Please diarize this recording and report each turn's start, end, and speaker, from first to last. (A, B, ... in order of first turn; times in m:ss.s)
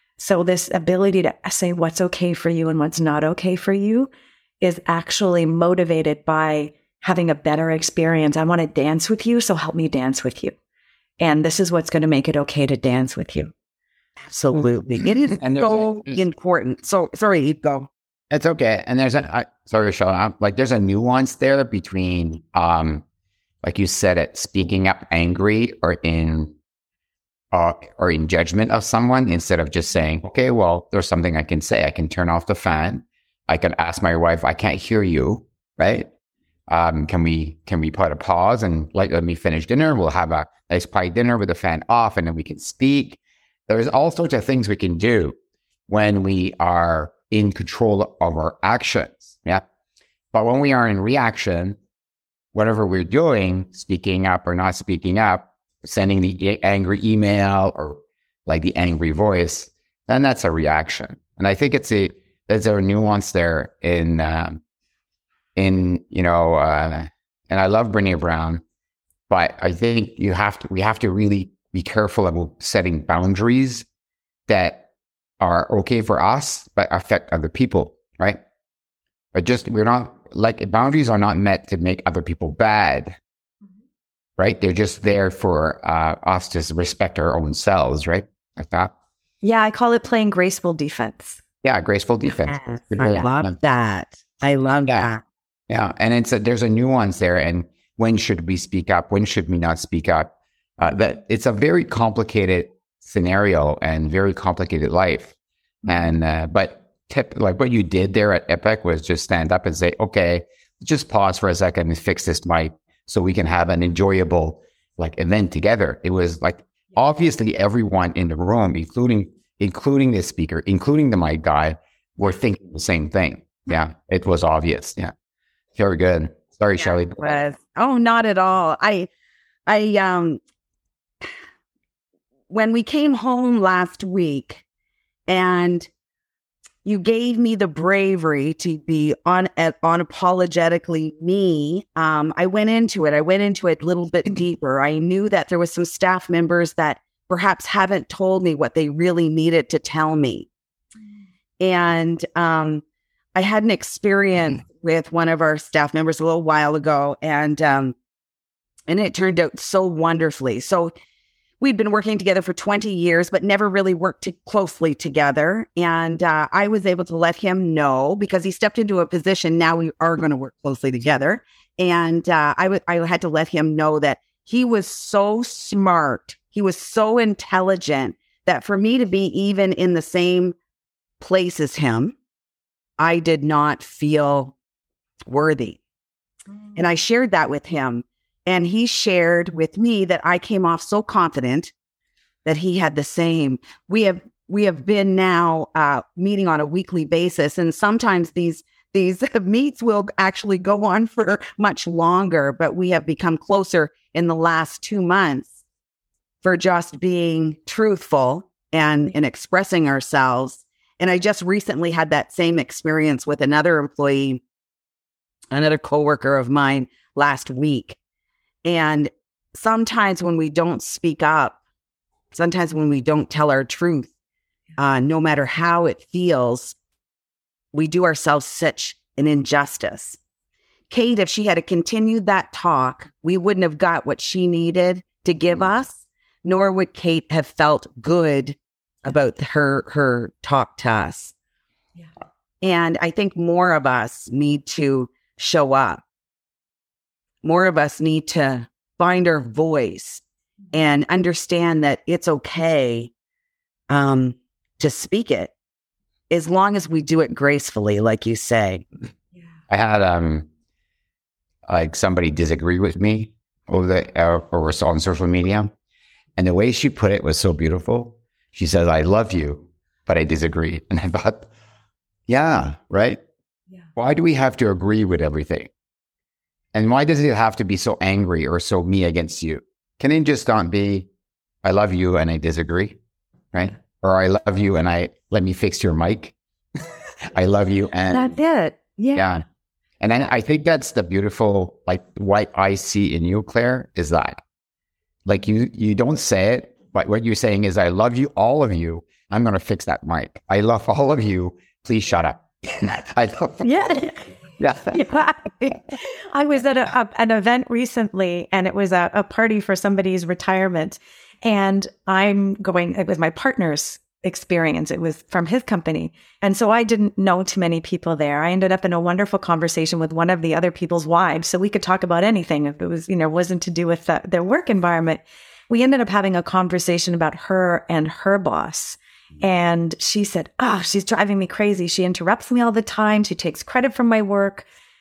0:00.2-0:04.1 A
0:04.6-0:10.6 A
0:11.2-0:13.5 A
0:14.3-0:17.9 B
0:15.4-0:16.2 C
0:18.3-0:23.0 C
0:23.6-0:26.6 C
0:27.5-0:36.1 C
0:36.7-0:45.4 C
0:45.9-0:49.6 C
0:50.3-0:51.8 C
0:52.5-1:04.6 C
1:05.6-1:08.6 C
1:09.3-1:13.9 C
1:14.5-1:14.9 C
1:15.4-1:18.4 C
1:19.3-1:23.2 C
1:24.4-1:28.9 C
1:29.4-1:31.4 A
1:31.6-1:33.5 C
1:32.5-1:35.2 B
1:35.7-2:05.1 C
2:05.8-2:07.4 C
2:06.8-2:09.1 B
2:09.7-2:10.4 B
2:12.5-2:14.6 B
2:15.3-2:15.9 B
2:16.8-2:30.5 B
2:31.6-2:32.8 B
2:33.4-2:38.0 B
2:38.9-2:40.9 B
2:41.6-3:00.6 B
3:01.2-3:02.2 B
3:03.0-3:04.6 B
3:05.2-3:05.8 B
3:06.8-3:11.7 B
3:12.4-3:25.6 B
3:26.4-3:34.4 B
3:35.5-3:38.0 B
3:38.6-3:41.6 B
3:42.3-3:44.1 B
3:44.8-3:46.8 B
3:47.7-3:50.2 B
3:50.9-4:01.3 B
4:02.6-4:06.0 B
4:07.4-4:13.1 B
4:13.9-4:15.5 B
4:16.3-4:18.8 B
4:19.7-4:20.5 C
4:21.7-4:25.7 C
4:26.4-4:31.5 C
4:32.3-4:33.2 C
4:34.0-4:35.7 C
4:36.7-4:41.1 C
4:41.6-4:43.0 C
4:43.5-4:46.4 C
4:47.3-4:48.4 C
4:48.1-4:49.4 A
4:49.2-4:49.4 C
4:50.0-4:54.4 C
4:55.3-5:03.9 C
5:03.6-5:04.2 A
5:04.6-5:05.1 C
5:04.9-5:34.7 A